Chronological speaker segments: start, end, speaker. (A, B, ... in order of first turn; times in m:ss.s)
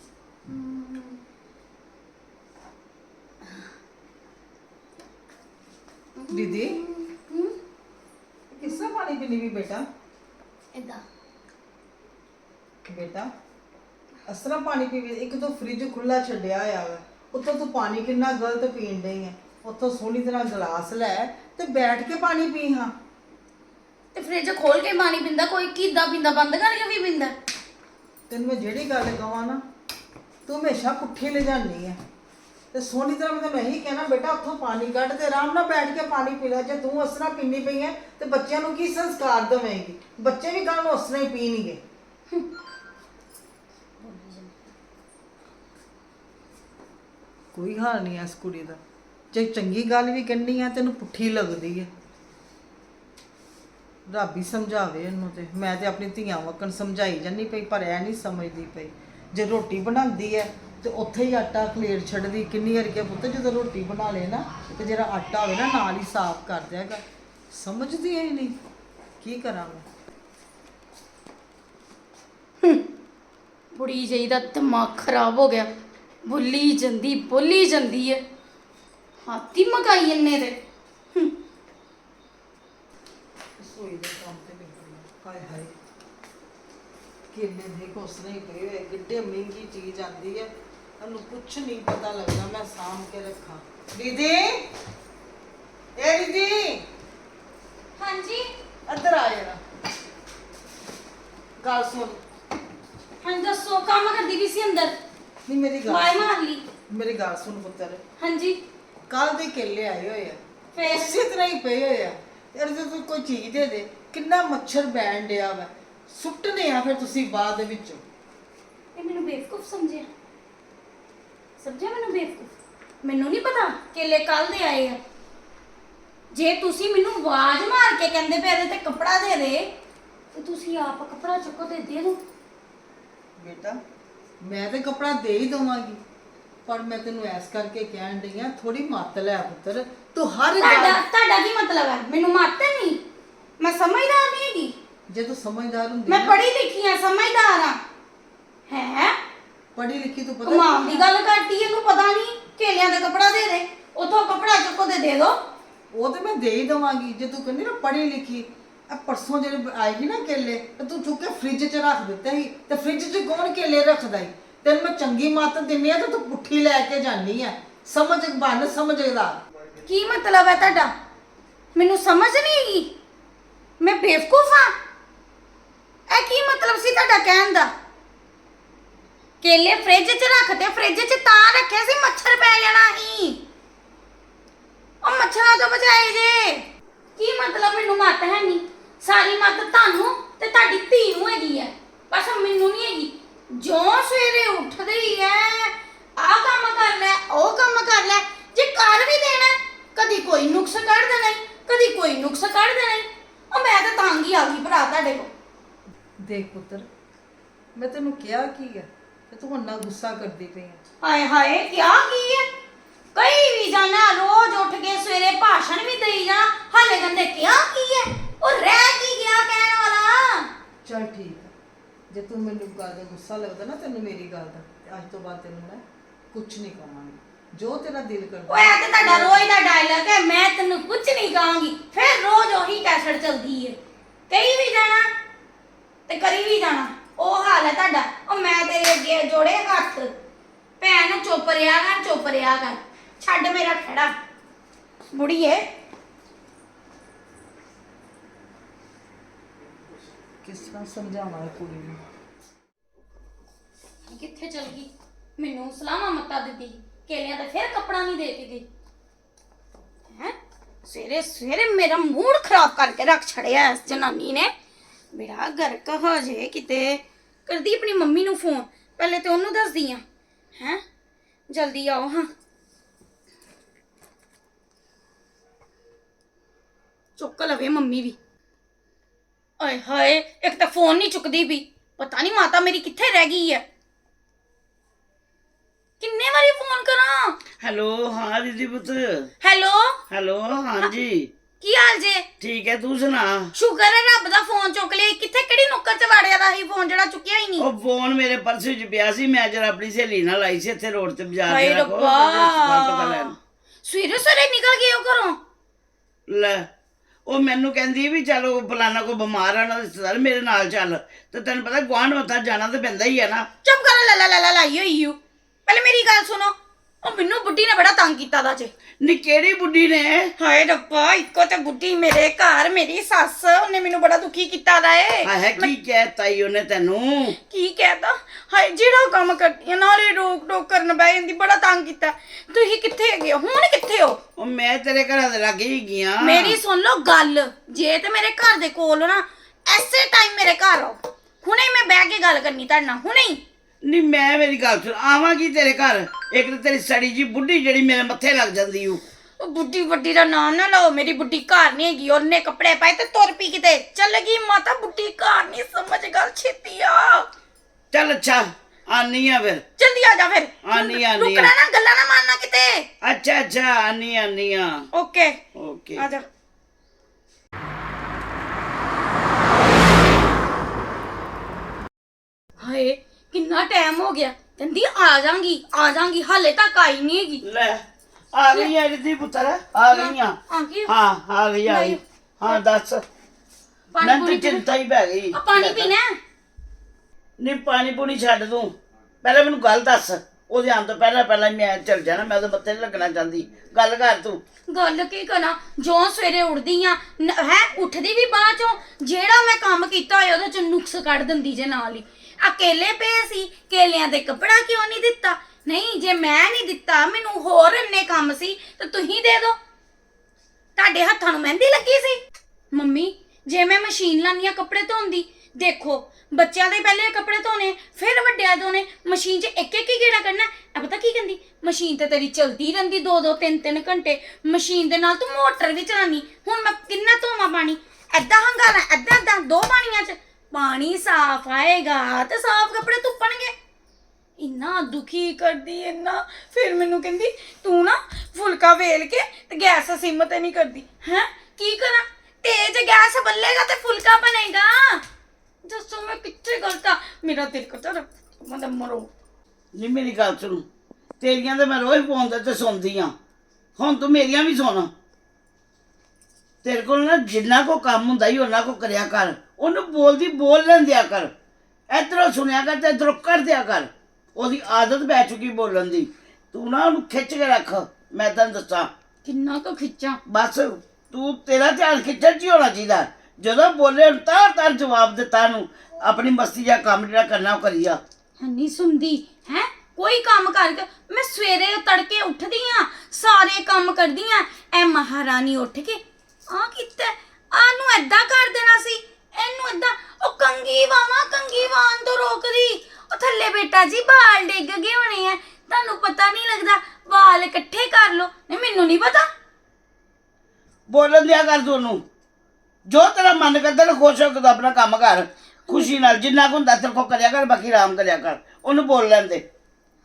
0:00.5-0:01.2 A
0:06.2-0:07.5 A
0:06.3-0:06.8 B
0:08.5-0:09.8 B
0:08.6-0:08.9 A
0:10.7-0:11.0 A
0:12.8-0:13.3 B
0:14.3-0:22.9 B
0:24.1-0:27.3 A
0:28.3-0:29.6 B
0:30.4-0:32.0 B
0:32.7-0:41.8 B
0:44.0-0:44.6 A
0:47.5-0:48.8 B
0:49.3-0:51.9 B
0:54.1-1:08.6 B
1:09.2-1:09.8 B
1:13.8-1:15.7 A
1:16.2-1:18.2 A
1:19.2-1:20.6 A
1:23.6-1:25.8 B
1:27.3-1:34.7 B
1:36.0-1:36.8 B
1:38.0-1:38.4 A
1:38.9-1:39.6 B
1:41.6-1:42.2 B
1:43.2-1:44.9 A
1:45.5-1:46.2 B
1:45.9-1:46.6 A
1:46.9-1:48.0 B
1:48.2-1:48.6 A
1:49.1-1:58.0 B
1:50.7-1:51.2 A
1:59.0-2:00.1 A
2:01.6-2:02.5 A
2:03.0-2:05.0 A
2:06.3-2:09.7 A
2:10.3-2:12.2 A
2:13.4-2:13.8 B
2:14.4-2:16.0 B
2:16.6-2:21.0 B
2:20.5-2:23.0 A
2:23.6-2:24.7 A
2:25.1-2:26.4 B
2:26.1-2:27.8 A
2:28.7-2:29.1 A
2:29.7-2:31.1 B
2:30.4-2:35.4 A
2:35.9-2:49.4 B
2:49.8-2:50.9 A
2:51.7-2:52.9 A
2:53.8-2:54.7 A
2:56.1-2:57.7 A
2:59.4-3:03.4 A
3:05.0-3:06.6 A
3:07.2-3:25.3 A
3:26.2-3:26.9 B
3:27.8-3:30.8 B
3:31.0-3:32.4 A
3:33.1-3:40.5 A
3:40.8-3:41.5 B
3:42.1-3:49.5 B
3:48.5-3:53.8 A
3:54.3-3:55.1 A
3:56.1-4:00.1 A
4:00.8-4:04.1 A
4:05.1-4:05.6 A
4:10.4-4:12.0 B
4:14.1-4:18.6 A
4:20.1-4:24.5 A
4:25.1-4:30.0 A
4:30.6-4:30.8 A
4:31.5-4:32.3 A
4:37.2-4:38.2 A
4:39.6-4:43.6 A
4:46.0-4:47.4 A
4:47.6-4:49.3 C
4:49.4-4:50.0 A
4:50.1-4:51.3 C
4:51.6-4:52.2 A
4:52.4-4:53.5 C
4:53.5-4:57.6 A
4:57.6-5:03.3 C
5:01.5-5:03.3 A
5:03.8-5:05.4 A
5:06.3-5:06.6 C
5:07.3-5:13.4 C
5:13.6-5:18.7 A
5:19.0-5:20.3 C
5:20.4-5:25.7 A
5:25.2-5:27.3 C
5:27.4-5:34.2 A
5:34.4-5:36.6 C
5:36.2-5:43.4 A
5:43.8-5:49.0 C
5:49.4-5:57.3 A
5:57.9-5:59.6 C
5:59.8-6:02.8 A
6:00.6-6:01.5 C
6:03.0-6:04.8 C
6:04.9-6:05.4 A
6:05.6-6:06.0 C
6:06.0-6:06.2 A
6:12.6-6:17.4 A
6:17.4-6:17.8 C
6:18.3-6:23.0 C
6:19.9-6:20.9 A
6:21.6-6:22.6 A
6:23.9-6:24.7 A
6:24.0-6:25.9 C
6:25.3-6:26.1 A
6:27.4-6:34.4 C
6:34.7-6:49.6 A
6:50.8-6:52.2 A
6:52.7-7:13.5 A
7:14.4-7:25.0 A
7:25.6-7:29.1 A
7:29.7-7:30.6 C
7:31.2-7:33.1 C
7:33.8-7:34.9 C
7:36.6-7:41.3 C
7:41.9-7:48.9 C
7:49.2-7:50.2 A
7:50.3-7:58.0 C
7:58.4-8:19.2 A
8:20.9-8:22.0 C
8:22.9-8:29.4 C